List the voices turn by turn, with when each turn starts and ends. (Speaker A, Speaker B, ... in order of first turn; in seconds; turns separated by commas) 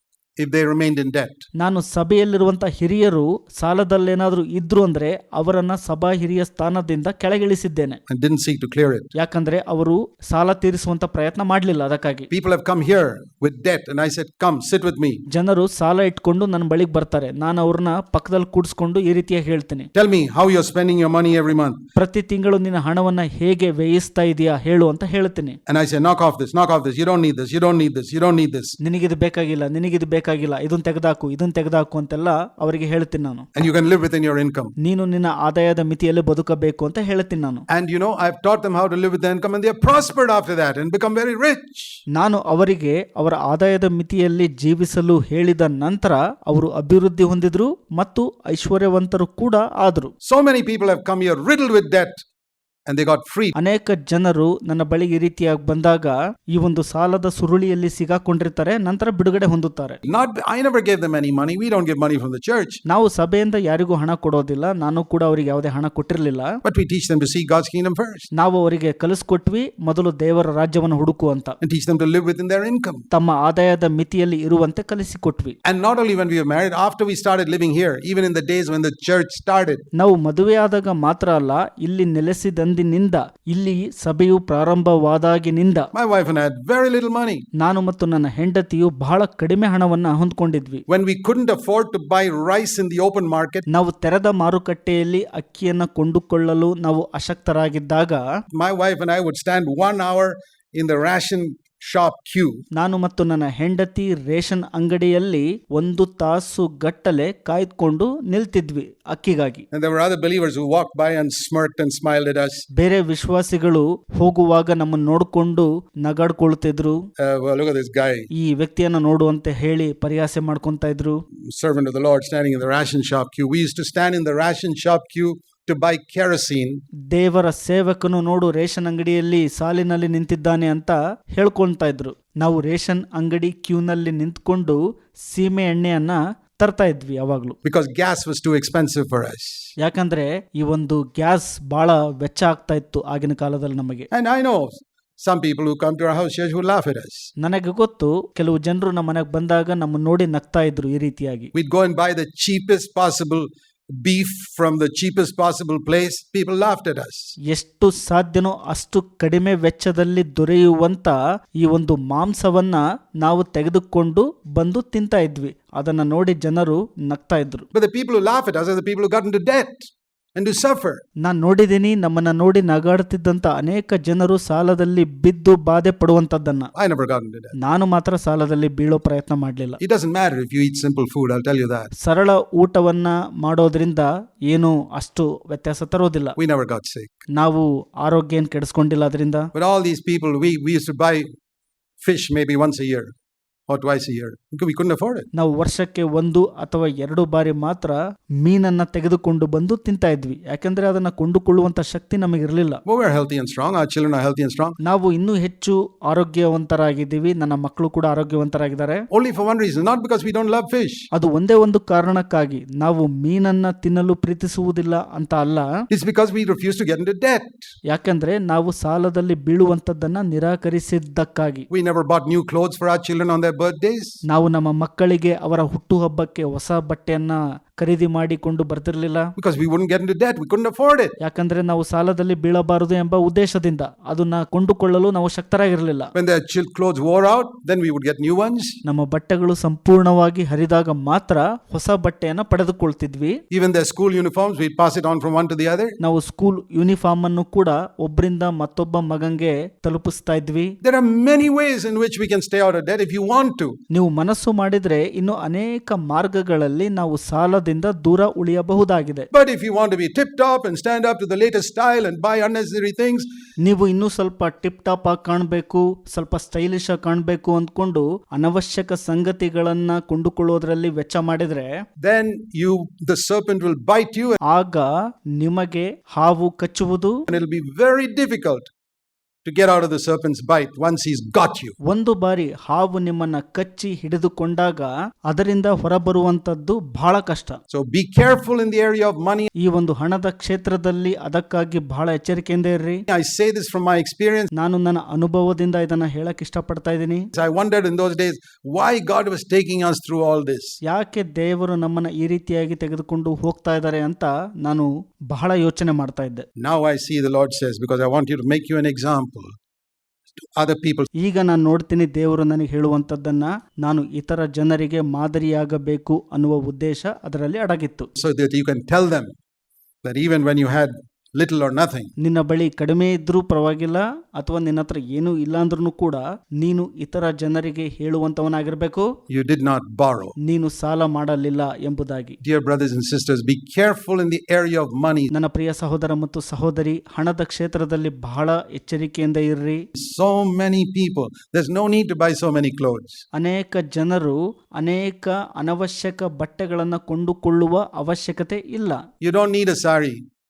Speaker A: 0.4-1.5, Speaker B: 1.6-8.0, Speaker A: 8.1-9.1, Speaker B: 9.1-12.3, Speaker A: 12.3-15.2, Speaker B: 15.3-19.9, Speaker A: 19.9-21.8, Speaker B: 21.9-25.6, Speaker A: 25.7-28.8, Speaker B: 28.8-33.5, Speaker A: 33.5-34.7, Speaker B: 34.8-37.6, Speaker A: 37.7-42.0, Speaker B: 42.1-50.1, Speaker A: 50.2-52.2, Speaker A: 52.9-53.5, Speaker B: 53.6-60.0, Speaker A: 60.0-62.8, Speaker B: 62.9-66.5, Speaker A: 66.6-68.3, Speaker B: 68.3-71.6, Speaker A: 71.6-73.0, Speaker B: 73.1-75.5, Speaker A: 75.6-79.8, Speaker B: 79.9-85.9, Speaker A: 85.9-87.4, Speaker B: 87.6-90.8, Speaker A: 90.9-93.6, Speaker B: 93.7-98.2, Speaker A: 98.5-102.6, Speaker B: 102.7-109.6, Speaker A: 109.7-112.7, Speaker B: 112.8-117.0, Speaker A: 117.2-118.3, Speaker B: 118.3-121.2, Speaker A: 121.5-126.8, Speaker B: 127.1-134.8, Speaker B: 135.3-137.6, Speaker A: 137.6-139.7, Speaker B: 139.8-144.1, Speaker A: 144.1-147.3, Speaker B: 147.4-151.5, Speaker A: 151.5-157.3, Speaker B: 157.5-167.7, Speaker A: 167.7-171.0, Speaker B: 171.2-176.7, Speaker A: 176.7-177.5, Speaker B: 177.6-179.8, Speaker A: 179.8-181.9, Speaker B: 182.0-186.3, Speaker A: 186.4-187.2, Speaker B: 187.3-189.5, Speaker A: 189.5-191.3, Speaker A: 192.0-193.1, Speaker A: 193.7-195.3, Speaker B: 195.3-202.8, Speaker A: 202.8-204.8, Speaker B: 204.8-209.0, Speaker A: 209.1-211.1, Speaker B: 211.1-215.7, Speaker A: 215.9-217.7, Speaker B: 217.9-221.7, Speaker A: 221.7-224.2, Speaker B: 224.3-229.3, Speaker A: 229.3-231.2, Speaker B: 231.2-236.1, Speaker A: 236.1-238.8, Speaker B: 238.8-243.4, Speaker A: 243.5-246.0, Speaker B: 246.0-250.7, Speaker A: 250.8-253.8, Speaker B: 253.9-259.3, Speaker A: 259.3-263.3, Speaker B: 263.6-271.7, Speaker A: 272.0-274.4, Speaker B: 274.5-277.1, Speaker A: 277.3-278.7, Speaker A: 279.4-281.8, Speaker B: 281.9-287.6, Speaker A: 287.7-289.5, Speaker B: 289.6-293.0, Speaker A: 293.1-294.5, Speaker B: 294.6-297.3, Speaker A: 297.3-300.8, Speaker B: 300.8-306.4, Speaker A: 306.6-309.6, Speaker A: 310.3-311.1, Speaker B: 311.2-318.1, Speaker A: 318.1-319.3, Speaker A: 320.0-322.1, Speaker B: 322.2-329.1, Speaker A: 329.3-330.3, Speaker B: 330.4-332.4, Speaker A: 332.4-335.3, Speaker B: 335.3-339.8, Speaker A: 339.9-343.2, Speaker B: 343.4-349.0, Speaker A: 349.2-350.2